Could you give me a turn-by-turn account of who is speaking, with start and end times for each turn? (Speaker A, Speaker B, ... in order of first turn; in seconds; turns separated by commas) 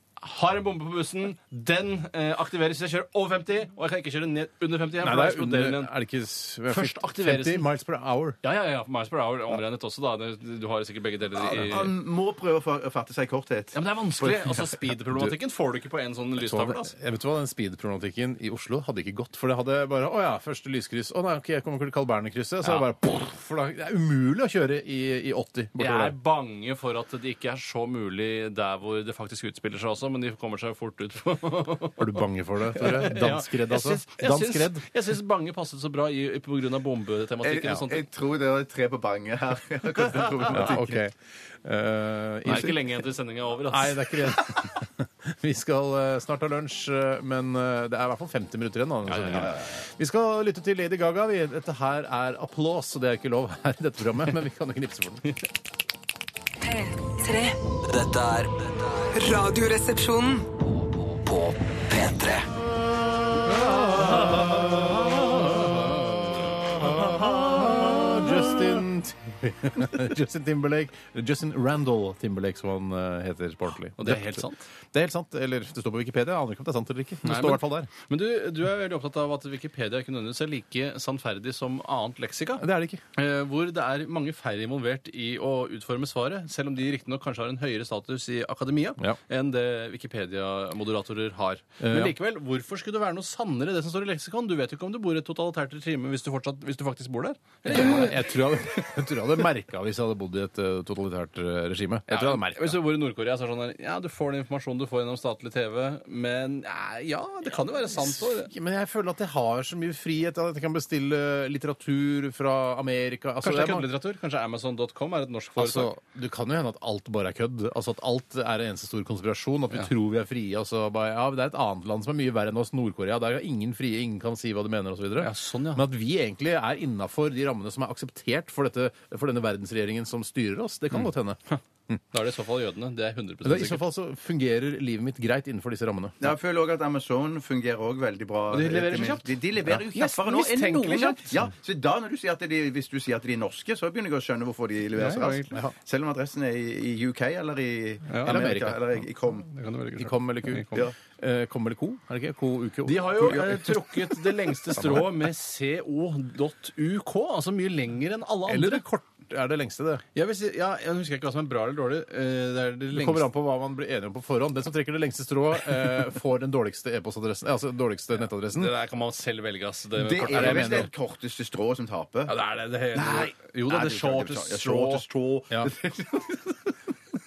Speaker A: 0.2-5.9, Speaker B: 5.0-8.4, Speaker A: 6.7-7.7, Speaker A: 8.4-11.9, Speaker C: 11.4-14.8, Speaker A: 13.7-16.9, Speaker B: 16.4-26.1, Speaker A: 25.8-32.2, Speaker B: 32.0-34.9, Speaker A: 32.7-38.0, Speaker C: 37.4-41.0, Speaker A: 40.0-40.7, Speaker B: 40.5-42.8, Speaker A: 42.4-44.3, Speaker B: 43.7-55.2, Speaker A: 49.1-49.5, Speaker C: 49.2-49.7, Speaker D: 56.6-57.5, Speaker E: 57.9-59.1, Speaker D: 59.1-60.5, Speaker E: 60.7-62.5, Speaker B: 63.4-77.9, Speaker A: 64.0-64.7, Speaker A: 65.4-65.9, Speaker A: 66.8-67.3, Speaker A: 74.0-74.6, Speaker A: 77.2-82.6, Speaker B: 82.6-83.0, Speaker A: 83.2-98.2, Speaker B: 91.8-92.1, Speaker B: 97.7-102.8, Speaker A: 102.1-108.5, Speaker B: 107.9-113.9, Speaker A: 113.4-115.9, Speaker B: 115.5-132.0, Speaker A: 125.2-125.9, Speaker A: 130.9-131.6, Speaker A: 132.1-133.8, Speaker B: 133.4-136.3, Speaker C: 136.2-149.5, Speaker A: 138.5-139.4, Speaker A: 139.9-141.3, Speaker A: 145.0-145.6, Speaker A: 148.1-148.4, Speaker B: 148.2-149.0, Speaker A: 149.4-150.9, Speaker B: 150.0-153.8, Speaker A: 152.8-158.8, Speaker C: 153.3-153.6, Speaker B: 154.7-155.1, Speaker B: 158.4-160.0, Speaker A: 160.1-163.3, Speaker B: 162.9-168.7, Speaker A: 168.5-170.9, Speaker C: 170.0-172.3, Speaker B: 170.3-170.9, Speaker A: 172.3-175.0, Speaker C: 172.9-176.6